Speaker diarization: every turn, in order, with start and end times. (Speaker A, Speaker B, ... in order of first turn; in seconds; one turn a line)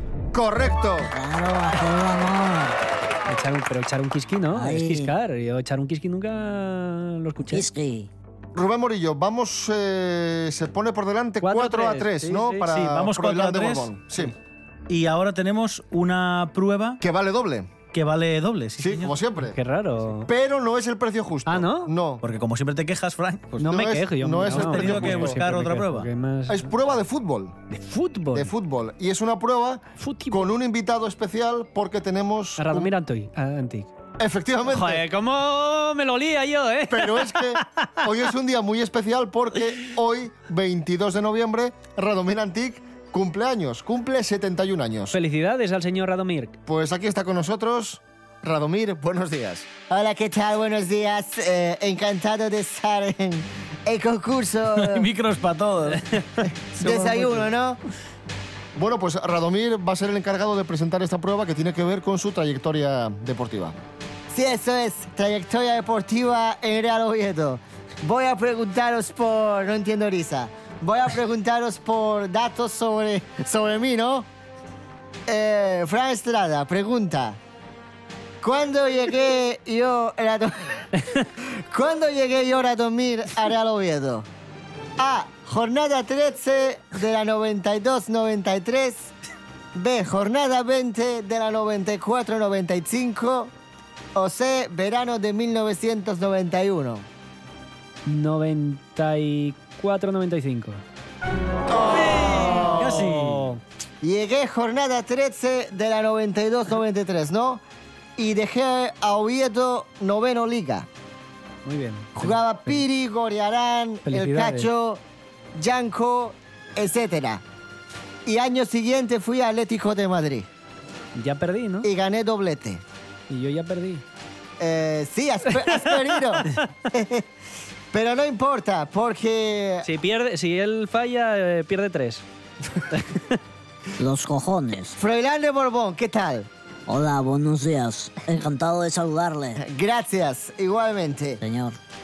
Speaker A: 0.3-1.1
Speaker B: 1.0-2.8
Speaker C: 3.3-7.7
Speaker B: 4.5-5.1
Speaker B: 7.5-8.1
Speaker A: 8.5-14.3
Speaker C: 11.4-12.7
Speaker D: 12.7-14.3
Speaker D: 14.9-17.0
Speaker A: 17.0-17.7
Speaker D: 17.9-19.2
Speaker A: 18.8-19.6
Speaker C: 19.4-20.3
Speaker A: 20.2-22.2
Speaker C: 21.5-21.9
Speaker D: 22.2-23.7
Speaker A: 23.6-25.4
Speaker C: 23.6-26.7
Speaker D: 24.4-26.1
Speaker A: 26.5-27.6
Speaker C: 27.7-28.5
Speaker A: 28.3-32.9
Speaker C: 30.0-30.5
Speaker C: 32.6-33.9
Speaker A: 34.2-35.0
Speaker C: 34.7-37.8
Speaker A: 36.9-45.2
Speaker C: 45.1-46.6
Speaker A: 46.6-49.7
Speaker E: 49.9-55.1
Speaker D: 54.7-56.0
Speaker C: 55.9-57.5
Speaker E: 56.7-57.8
Speaker A: 58.8-63.8
Speaker E: 64.3-74.3
Speaker E: 75.3-77.4
Speaker E: 78.4-84.2
Speaker E: 85.0-89.1
Speaker E: 89.7-93.5
Speaker E: 94.1-97.0
Speaker C: 98.0-100.8
Speaker E: 101.7-102.8
Speaker D: 101.9-103.5
Speaker C: 102.2-103.6
Speaker E: 104.0-107.6
Speaker E: 108.2-110.9
Speaker C: 111.6-112.8
Speaker E: 112.2-115.0
Speaker C: 114.0-114.7
Speaker E: 115.5-117.4
Speaker E: 118.2-120.5
Speaker C: 121.1-121.9
Speaker E: 121.8-122.8
Speaker C: 123.3-124.0
Speaker E: 124.6-127.2
Speaker E: 127.9-129.8
Speaker C: 129.8-132.2
Speaker C: 132.8-133.4
Speaker B: 134.0-135.0
Speaker E: 135.0-136.5
Speaker B: 136.9-139.6
Speaker E: 139.6-141.4
Speaker B: 141.4-141.8